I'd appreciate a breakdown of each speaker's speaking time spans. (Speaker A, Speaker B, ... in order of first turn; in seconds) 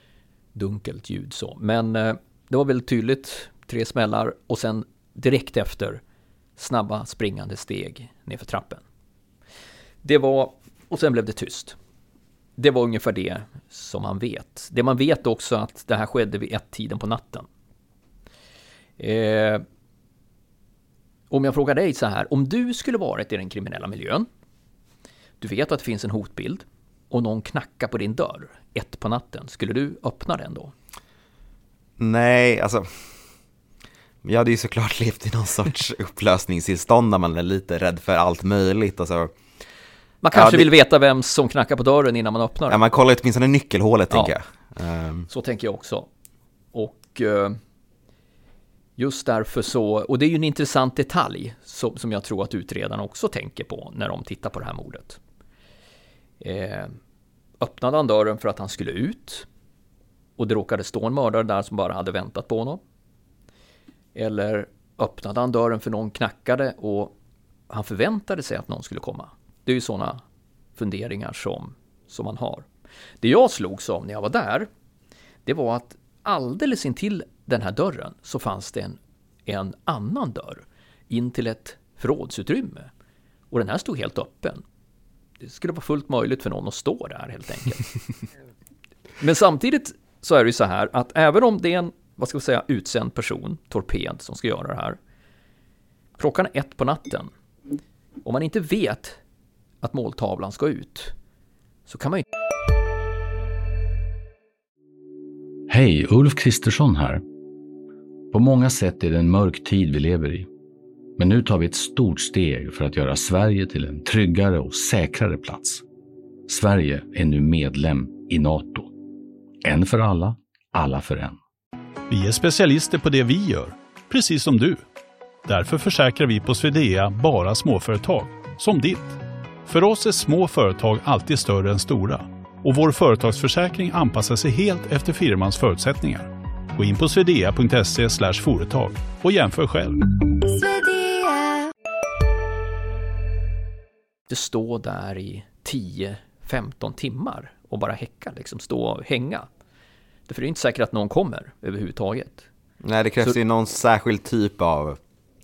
Speaker A: 0.6-6.0, 6.6-8.8, 10.0-11.8, 12.6-17.5, 19.0-19.6, 21.3-24.3, 25.4-30.7, 40.2-42.8, 45.3-46.1, 46.7-47.6, 49.0-55.2, 56.4-57.0, 57.6-59.5, 60.4-62.8, 64.2-67.1, 67.7-70.2, 70.8-72.7, 73.2-74.7, 75.5-82.9, 83.5-84.6, 85.4-87.9, 89.2-95.0, 96.2-97.3, 98.2-99.2, 99.8-101.1, 101.9-102.2, 144.3-149.5, 150.3-152.5
Speaker B: 32.0-32.9, 34.2-39.3, 40.3-40.7, 42.7-45.3, 152.8-155.0
Speaker C: 105.7-107.2, 108.3-110.5, 111.2-115.8, 116.5-118.9, 119.6-121.4
Speaker D: 122.1-124.8, 125.5-140.0